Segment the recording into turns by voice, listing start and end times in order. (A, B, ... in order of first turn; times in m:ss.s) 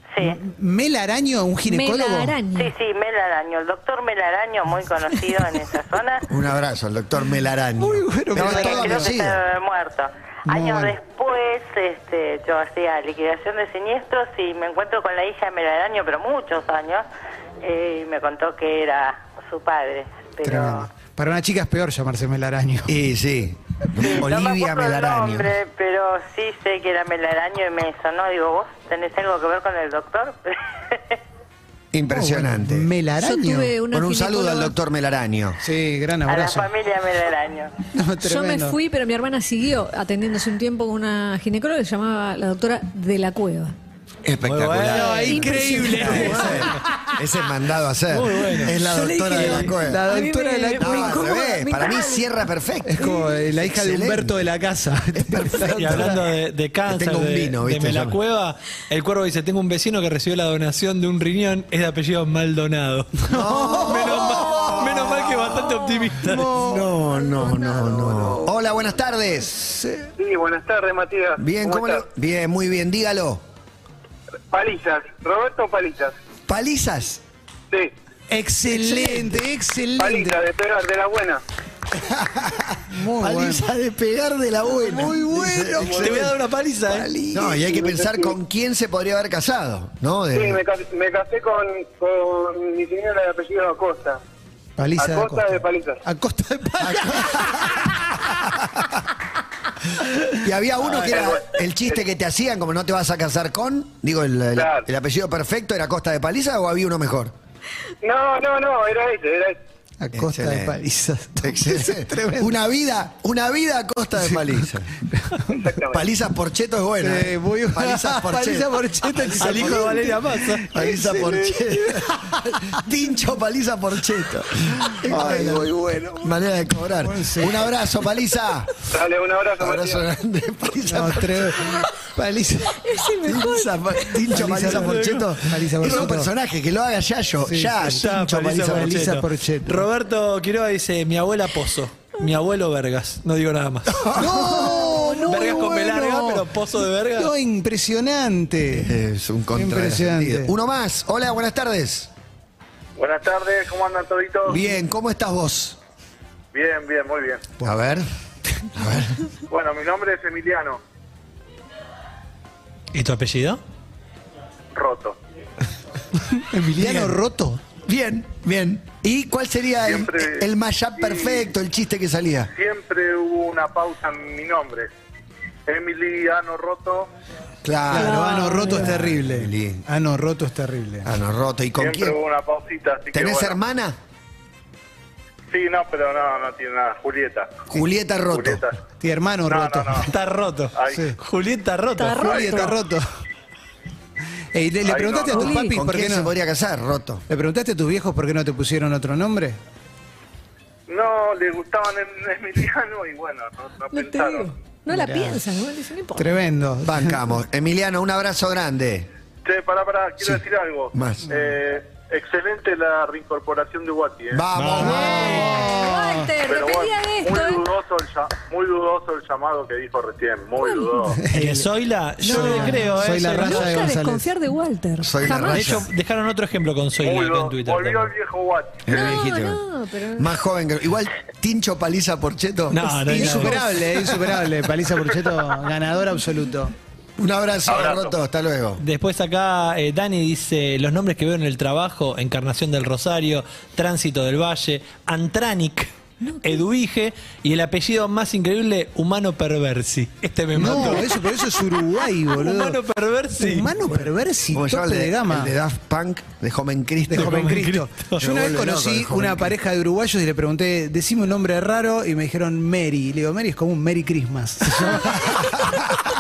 0:00.2-0:02.4 A
0:01.7-0:02.7 B
0:02.6-0:06.3 C
0:06.3-0:09.4 D
0:07.8-0:09.2 A
0:08.4-0:17.1 C
0:10.5-0:11.0 A
0:17.6-0:20.9 C
0:20.4-0:22.9 A
0:22.9-0:25.5 D
0:24.0-0:31.2 C
0:31.9-0:32.9 D
0:32.1-0:33.7 A
0:33.2-0:34.8 B
0:33.9-0:35.6 D
0:35.6-0:36.7 A
0:36.3-0:37.7 C
0:37.9-0:38.8 A
0:38.2-0:43.7 B
0:44.2-0:50.0 D
0:44.4-0:46.6 E
0:44.9-0:46.7 A
0:45.3-0:46.8 B
0:48.1-0:48.8 E
0:48.8-0:52.3 B
0:49.7-0:51.2 A
0:50.8-0:54.4 D
0:52.9-0:56.2 A
0:55.1-0:56.2 D
0:55.7-1:06.6 E
0:56.9-0:58.2 D
1:03.3-1:05.1 A
1:03.3-1:04.7 D
1:06.2-1:06.9 A
1:06.5-1:09.9 D
1:07.5-1:08.4 A
1:10.2-1:12.0 F
1:11.4-1:13.4 D
1:14.5-1:16.2 F
1:16.5-1:17.2 D
1:18.3-1:20.4 A
1:18.7-1:19.4 D
1:20.0-1:21.4 F
1:22.0-1:26.3 D
1:22.9-1:23.7 A
1:24.8-1:26.3 A
1:25.9-1:27.1 E
1:26.9-1:30.6 D
1:27.2-1:27.6 A
1:27.7-1:28.3 F
1:30.3-1:34.2 F
1:34.8-1:38.0 A
1:35.0-1:36.0 F
1:36.8-1:37.6 D
1:40.4-1:47.3 D
1:40.9-1:41.5 F
1:44.6-1:44.9 F
1:48.0-1:49.6 F
1:50.0-1:52.6 A
1:50.1-1:50.8 D
1:51.4-1:54.9 D
1:55.1-1:55.7 A
1:55.5-1:56.0 F
1:55.9-2:00.2 D
1:57.0-2:02.7 A
1:59.4-2:00.8 E
2:00.7-2:05.7 D
2:04.8-2:06.4 A
2:06.2-2:08.7 D
2:07.0-2:07.7 A
2:08.9-2:10.0 F
2:09.6-2:11.8 D
2:10.9-2:12.8 A
2:12.8-2:14.3 B
2:13.2-2:19.1 D
2:14.3-2:16.3 A
2:14.7-2:16.1 E
2:17.5-2:19.9 A
2:17.8-2:24.2 E
2:24.0-2:24.8 D
2:24.1-2:26.4 A
2:24.6-2:25.3 B
2:25.3-2:27.3 E
2:27.2-2:28.9 A
2:28.7-2:32.1 D
2:29.6-2:30.5 A
2:33.0-2:34.6 G
2:34.5-2:35.8 D
2:36.5-2:37.5 G
2:37.6-2:38.1 D
2:38.8-2:39.2 D
2:39.5-2:40.8 G
2:42.9-2:43.6 E
2:44.7-2:45.2 G
2:46.5-2:47.6 A
2:46.8-2:47.1 D
2:47.9-2:52.5 D
2:49.8-2:51.4 G
2:52.5-2:54.9 G
2:55.7-2:57.1 G
2:57.6-2:59.8 D
2:57.9-3:01.1 A
2:57.9-2:59.0 B
3:01.0-3:02.2 D
3:01.8-3:03.6 G
3:03.1-3:04.0 D
3:05.5-3:07.6 G
3:07.7-3:08.6 D
3:08.3-3:08.8 G
3:09.0-3:10.1 A
3:09.5-3:10.1 G
3:10.0-3:12.8 E
3:10.7-3:11.0 G
3:12.0-3:12.8 B
3:12.2-3:13.0 A
3:14.5-3:16.3 A
3:14.9-3:15.5 G
3:15.3-3:15.8 B
3:15.7-3:17.2 D
3:17.3-3:19.6 A
3:20.9-3:24.5 G
3:23.9-3:26.3 B
3:24.9-3:25.4 A
3:26.2-3:27.2 A
3:26.8-3:29.1 D
3:29.4-3:34.4 G
3:30.9-3:31.3 D
3:34.3-3:35.5 D
3:34.5-3:35.6 E
3:34.8-3:36.3 A
3:34.8-3:37.7 B
3:36.4-3:41.2 G
3:40.6-3:41.2 B
3:41.1-3:41.7 A
3:41.3-3:43.8 E
3:42.2-3:44.3 A
3:42.2-3:45.8 B
3:45.0-3:45.9 D
3:45.5-3:48.1 E
3:47.0-3:48.8 G
3:48.8-3:49.6 D
3:48.9-3:50.3 B
3:50.2-3:53.6 D
3:52.7-3:53.6 E
3:53.1-3:56.7 A
3:57.2-3:58.8 D
3:57.7-3:58.1 G
3:58.8-4:05.9 E
4:06.2-4:06.6 B
4:06.4-4:11.2 E
4:10.5-4:12.8 A
4:12.3-4:13.7 E
4:13.4-4:15.5 A
4:13.9-4:17.5 D
4:17.1-4:25.8 A
4:17.1-4:18.2 E
4:18.2-4:19.5 D
4:25.2-4:25.8 D